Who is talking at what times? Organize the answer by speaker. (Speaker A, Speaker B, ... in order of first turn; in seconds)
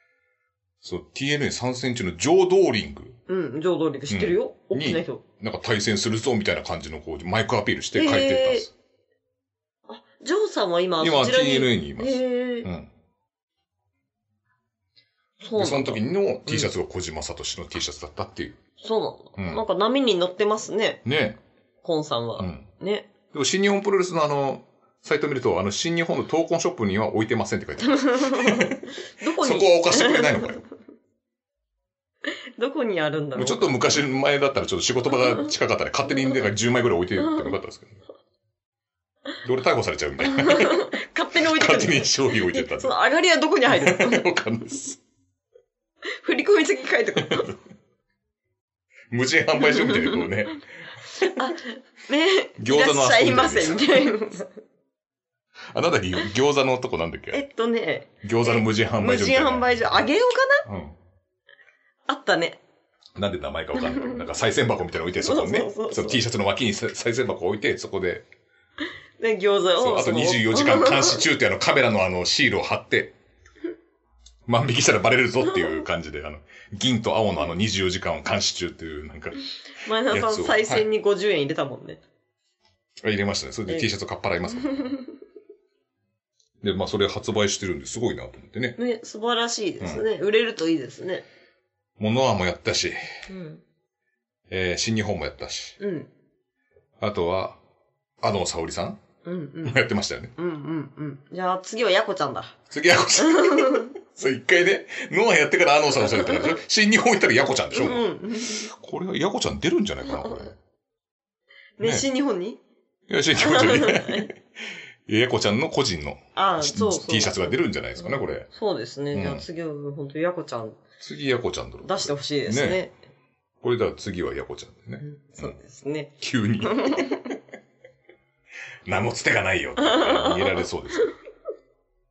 Speaker A: 0.8-3.2, 4.1-8.7, 11.0-12.9, 15.6-18.6, 19.4-19.6, 21.0-21.4, 22.4-22.7, 23.3-28.8, 29.4-30.6, 33.4-38.0, 39.4-42.9, 43.7-45.0, 47.2-47.5, 49.1-50.6, 52.6-54.1, 55.7-57.4, 58.2-60.0, 60.6-61.0, 63.1-68.2, 69.8-73.1, 74.5-79.4, 80.1-80.8, 83.0-84.9, 86.6-88.8, 89.8-90.0, 92.0-93.0, 94.5-95.8, 97.0-97.6, 98.2-99.0, 99.6-100.3, 102.7-110.6, 113.1-114.4, 115.0-118.5, 119.1-119.4, 121.0-122.8, 123.6-125.6, 126.2-127.1, 128.8-131.1
Speaker B: 3.3-5.2, 7.9-8.7, 9.9-12.7, 15.4-16.7, 18.8-21.0, 21.8-23.1, 27.9-30.5, 32.6-33.8, 40.2-44.3, 46.2-47.5, 49.6-50.3, 51.2-54.5, 57.3-60.6, 62.1-62.6, 65.2-66.2, 69.2-71.2, 79.8-82.0, 88.8-91.2, 93.3-93.6, 95.8-96.1, 99.2-99.8, 100.4-102.6, 103.2-103.9, 106.2-106.5, 107.7-108.7, 111.8-112.6, 113.4-114.3, 116.3-120.8, 121.8-122.9, 125.0-126.1, 126.6-127.2, 129.8-130.6